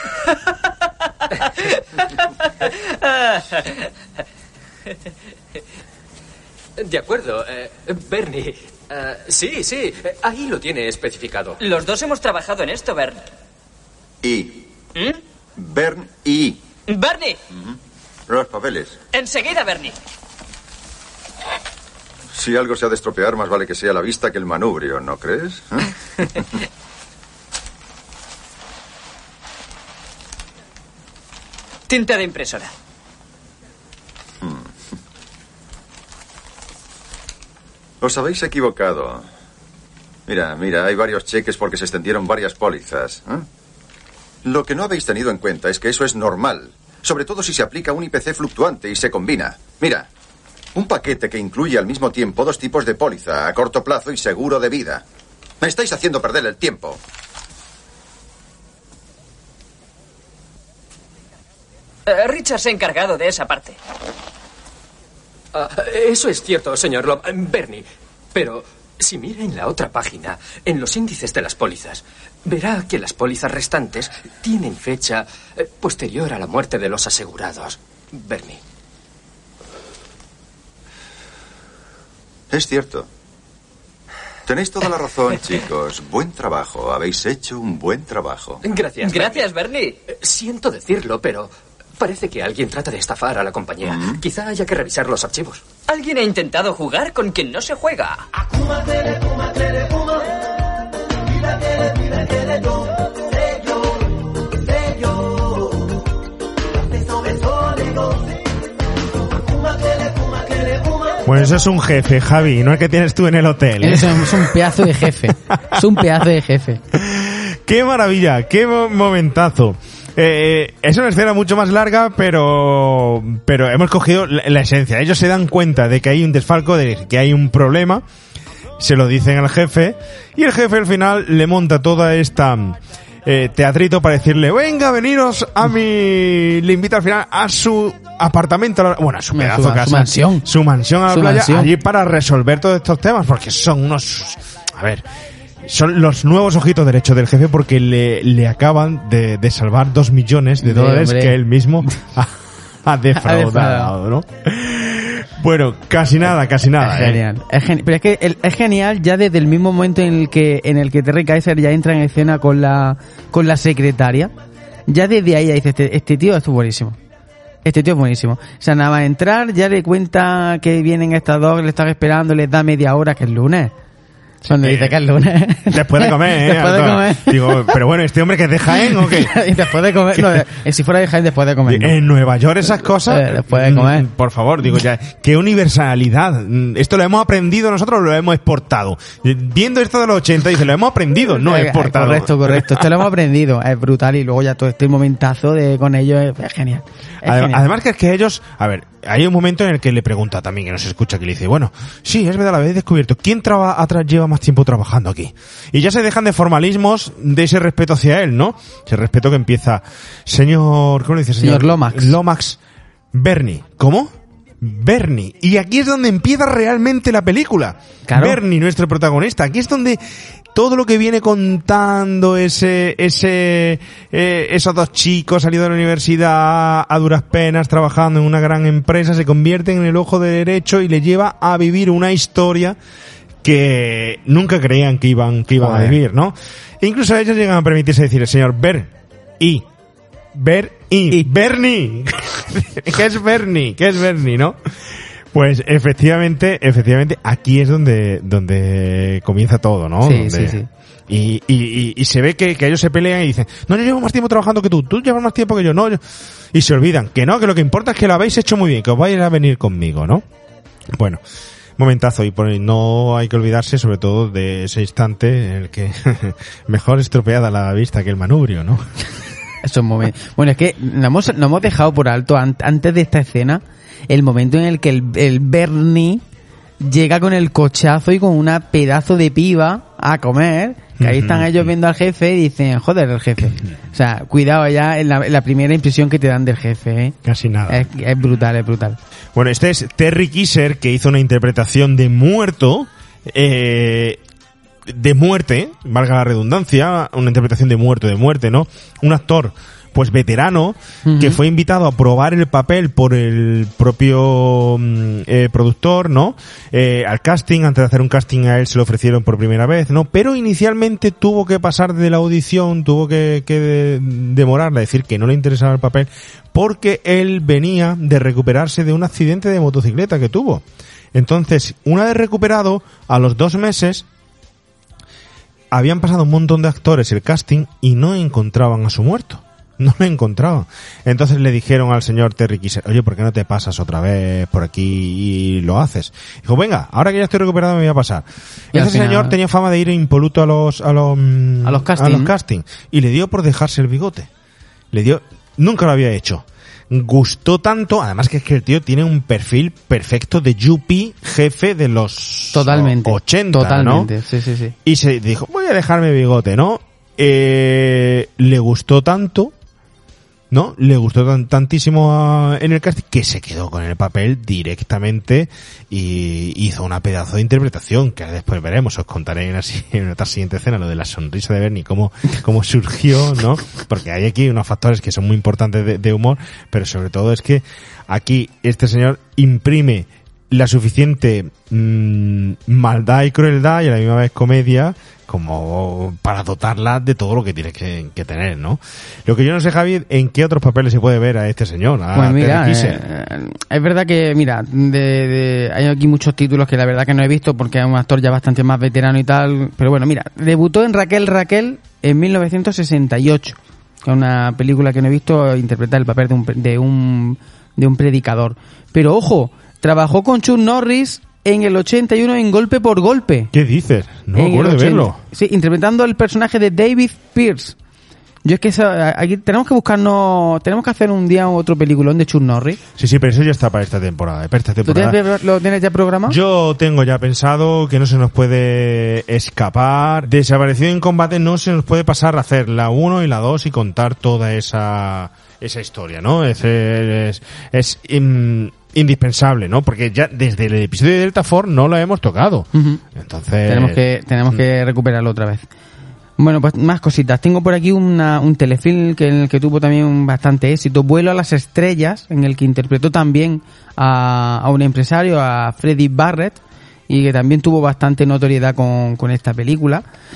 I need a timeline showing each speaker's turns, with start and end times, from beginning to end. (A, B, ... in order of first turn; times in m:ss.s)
0:02.6-0:03.7 A
0:06.8-0:11.6 B
0:11.6-0:13.3 A
0:14.2-0:14.6 C
0:14.9-0:15.2 A
0:15.6-0:16.6 C
0:16.9-0:17.4 A
0:18.3-0:19.0 C
0:19.1-0:19.9 A
0:22.3-0:25.9 C
0:31.9-0:32.7 A
0:34.4-0:34.7 C
0:38.0-0:39.3 C
0:40.3-0:43.4 C
0:44.4-0:50.1 C
0:50.7-0:55.0 C
0:55.6-0:57.0 C
1:02.1-1:03.8 A
1:05.5-1:18.6 B
1:22.5-1:23.1 C
1:24.5-1:28.6 C
1:28.6-1:29.5 B
1:29.0-1:30.0 A
1:30.1-1:35.7 B
1:33.8-1:34.2 C
1:35.8-1:38.2 A
1:51.2-1:56.2 D
1:53.8-1:56.8 E
1:56.9-2:08.0 D
2:08.8-2:25.0 D
2:19.3-2:20.4 E
2:21.1-2:21.7 E
2:25.6-2:37.2 D
2:30.6-2:32.0 E
2:33.1-2:33.9 E
2:36.8-2:44.3 E
2:44.9-2:47.0 E
2:47.6-2:53.7 E
2:54.4-2:55.0 D
2:54.5-2:57.8 E
2:55.7-2:59.5 D
2:58.7-3:02.0 E
3:00.1-3:00.4 D
3:01.6-3:12.9 D
3:03.0-3:04.1 E
3:11.3-3:17.6 E
3:17.2-3:32.6 D
3:31.4-3:32.2 E
3:33.1-3:40.0 D
3:38.1-3:38.4 E
3:40.5-3:52.8 D
3:53.4-3:59.6 D
3:55.6-3:56.0 E
4:00.3-4:04.6 D
4:05.3-4:16.0 D
4:10.0-4:10.7 E
4:16.5-4:20.2 D
4:20.9-4:21.2 D
4:21.8-4:29.1 D
4:29.6-4:36.2 E
4:36.8-4:47.2 E
4:41.0-4:41.7 D
4:47.2-4:47.9 D
4:47.7-4:49.0 E
4:49.3-4:54.2 D
4:54.8-5:20.6 D
5:01.0-5:01.4 E
5:21.1-5:24.0 D
5:25.7-5:44.3 D
5:38.7-5:39.3 E
5:41.6-5:42.3 E
5:44.9-5:54.1 D
5:52.5-5:54.7 E
5:54.8-5:59.5 D
6:00.5-6:33.0 D
6:32.1-6:53.5 E
6:53.5-6:55.2 D
6:54.3-6:57.8 E
6:58.4-7:02.8 E
7:03.0-7:05.2 D
7:04.8-7:06.4 E
7:06.2-7:24.0 D
7:22.7-7:23.0 E
7:23.6-7:25.7 E
7:26.4-7:40.0 E